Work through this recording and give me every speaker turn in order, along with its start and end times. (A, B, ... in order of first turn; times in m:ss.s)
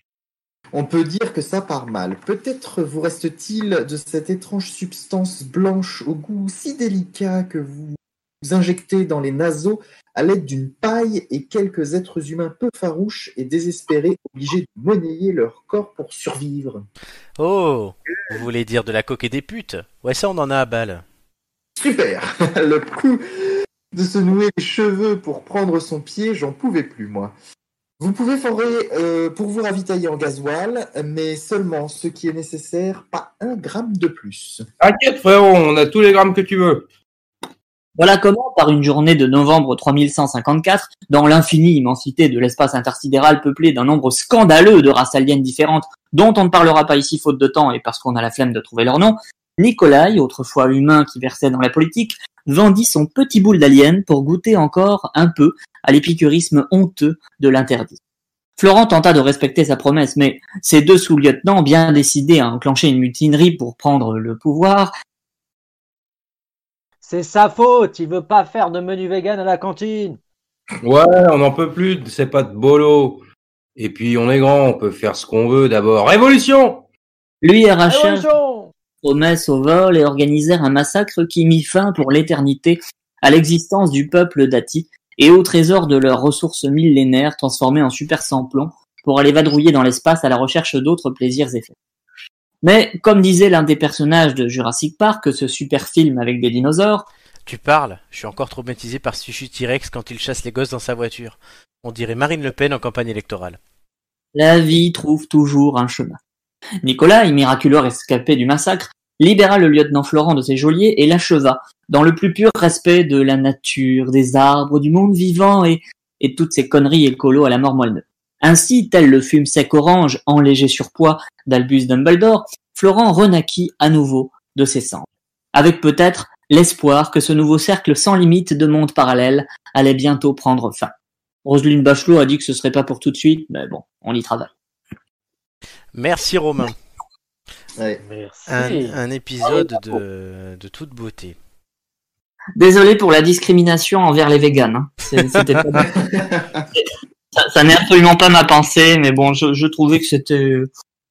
0:00.7-0:16.8 A
0:17.4-0:21.0 B
0:21.8-0:27.3 A
0:28.0-0:34.6 A
0:34.8-0:36.9 C
0:38.0-0:58.0 D
0:58.6-1:04.9 D
1:07.0-1:10.2 E
1:10.8-1:13.2 C
1:13.8-1:16.8 C
1:17.4-1:18.3 D
1:17.9-1:18.7 E
1:19.0-1:31.7 D
1:32.6-1:37.1 D
1:37.4-1:43.6 B
1:44.3-1:46.2 D
1:46.8-2:10.9 D
2:11.4-2:14.5 D
2:15.9-2:16.8 B
2:17.8-2:18.0 A
2:18.0-2:19.0 E
2:18.5-2:21.4 B
2:22.6-2:26.0 D
2:25.4-2:25.6 B
2:25.9-2:26.6 A
2:26.8-2:30.7 D